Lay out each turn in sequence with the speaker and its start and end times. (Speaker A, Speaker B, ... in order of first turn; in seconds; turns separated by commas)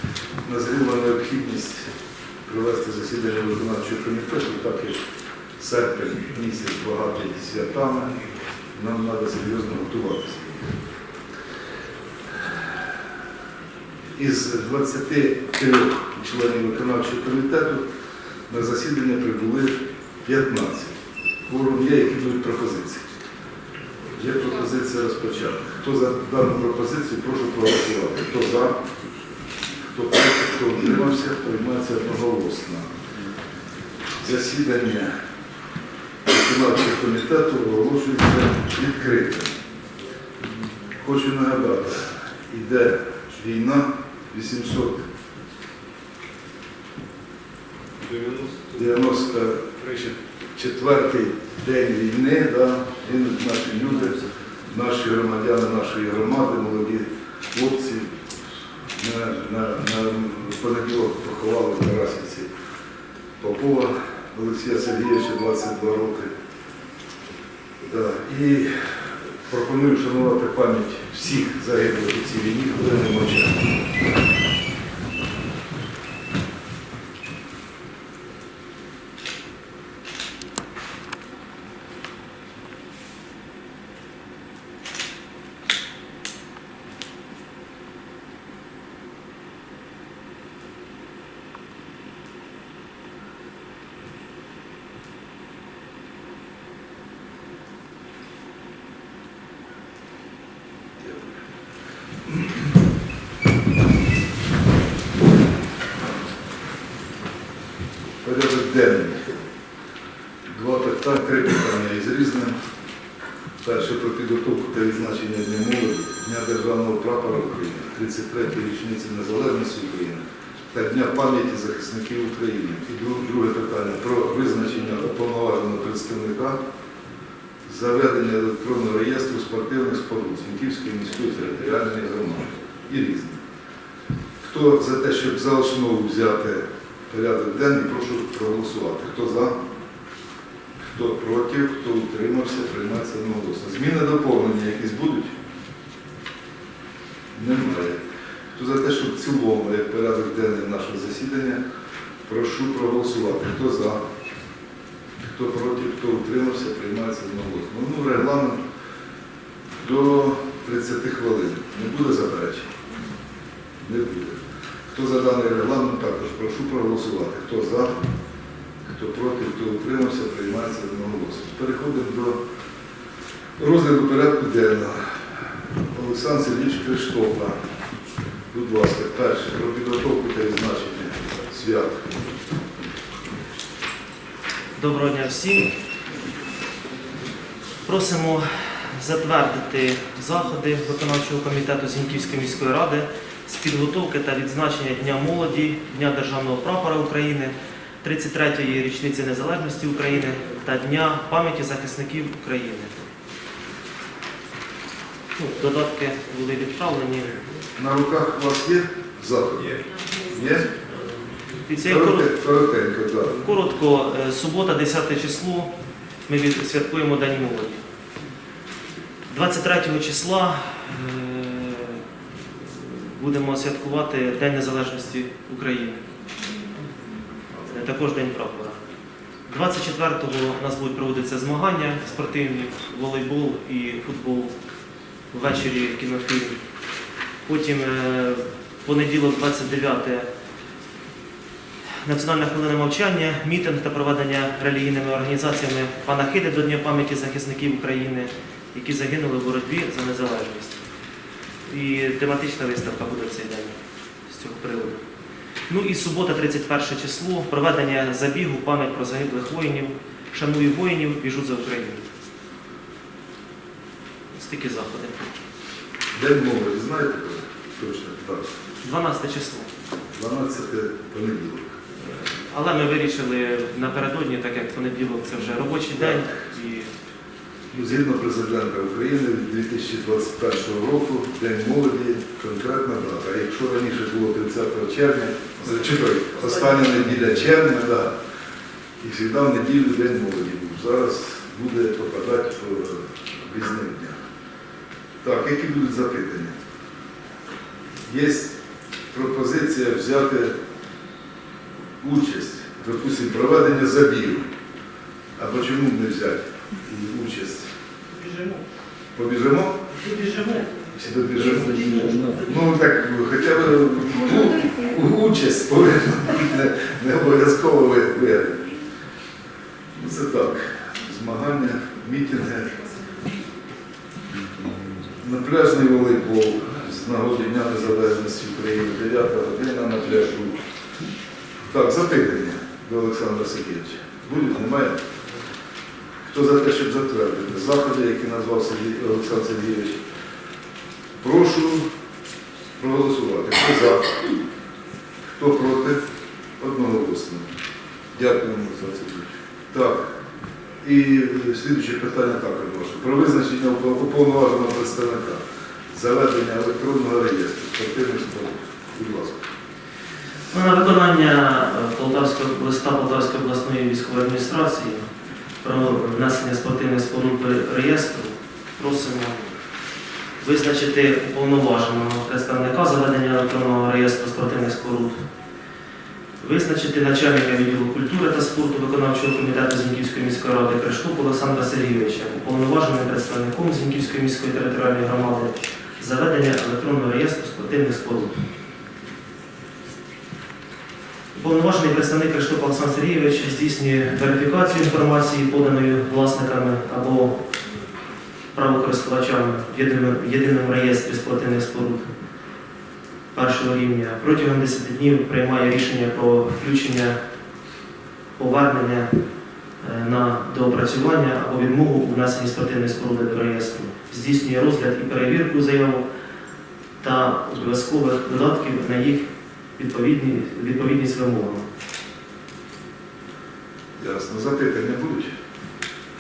Speaker A: 0.4-1.9, Speaker A: 2.5-5.0, Speaker A: 5.6-8.2, Speaker A: 8.7-10.7, Speaker A: 14.2-17.8, Speaker A: 18.5-23.1, Speaker A: 24.1-28.8, Speaker A: 29.8-32.9, Speaker A: 34.2-35.1, Speaker A: 36.3-39.5, Speaker A: 41.0-45.0, Speaker A: 48.1-58.1, Speaker A: 58.9-62.5, Speaker A: 63.4-66.3, Speaker A: 67.8-73.7, Speaker A: 101.0-101.4, Speaker A: 102.3-102.7, Speaker A: 108.2-109.4, Speaker A: 110.5-112.5, Speaker A: 113.6-126.6, Speaker A: 127.7-133.4, Speaker A: 134.4-139.6, Speaker A: 140.9-145.3, Speaker A: 147.3-148.0, Speaker A: 148.6-151.6, Speaker A: 152.3-154.0, Speaker A: 155.2-158.6, Speaker A: 159.8-162.7, Speaker A: 163.8-164.4, Speaker A: 164.9-167.9, Speaker A: 168.9-172.4, Speaker A: 173.6-175.2, Speaker A: 175.8-177.6, Speaker A: 178.5-182.1, Speaker B: 184.8-185.8, Speaker B: 187.9-203.0, Speaker B: 205.4-207.4, Speaker A: 207.8-210.8, Speaker B: 211.6-212.3, Speaker A: 211.8-213.4, Speaker B: 213.3-215.7, Speaker B: 216.3-217.8, Speaker B: 219.3-222.0, Speaker B: 222.6-226.0, Speaker B: 227.6-228.8, Speaker B: 229.5-234.5, Speaker B: 235.3-236.6, Speaker B: 237.5-240.3, Speaker B: 242.0-250.8, Speaker B: 251.7-253.8, Speaker B: 254.3-255.0, Speaker B: 255.7-262.0, Speaker B: 264.3-265.3, Speaker A: 266.1-268.5, Speaker B: 268.8-269.7, Speaker A: 270.1-271.8, Speaker B: 272.0-276.9, Speaker A: 276.0-276.3, Speaker A: 277.7-288.1, Speaker B: 286.5-286.8, Speaker A: 289.0-294.2, Speaker A: 295.2-296.6, Speaker A: 298.1-298.6, Speaker A: 299.1-300.5, Speaker A: 302.0-304.5, Speaker A: 305.4-307.7, Speaker B: 308.1-308.6, Speaker A: 309.1-309.9, Speaker B: 310.0-310.8, Speaker A: 310.8-318.8, Speaker A: 319.9-322.9, Speaker A: 325.1-330.6, Speaker A: 331.7-335.0, Speaker A: 336.2-340.0, Speaker A: 341.2-341.9, Speaker A: 342.8-344.3, Speaker A: 345.4-346.0, Speaker A: 346.6-347.5, Speaker A: 348.1-350.1, Speaker A: 350.8-359.5, Speaker B: 360.5-365.1, Speaker B: 365.6-369.4, Speaker B: 370.4-375.2, Speaker B: 376.4-388.4, Speaker B: 391.3-397.3, Speaker B: 398.5-402.1, Speaker B: 403.3-407.2, Speaker B: 408.4-409.1, Speaker B: 409.8-416.0, Speaker B: 417.0-421.6, Speaker A: 424.0-425.3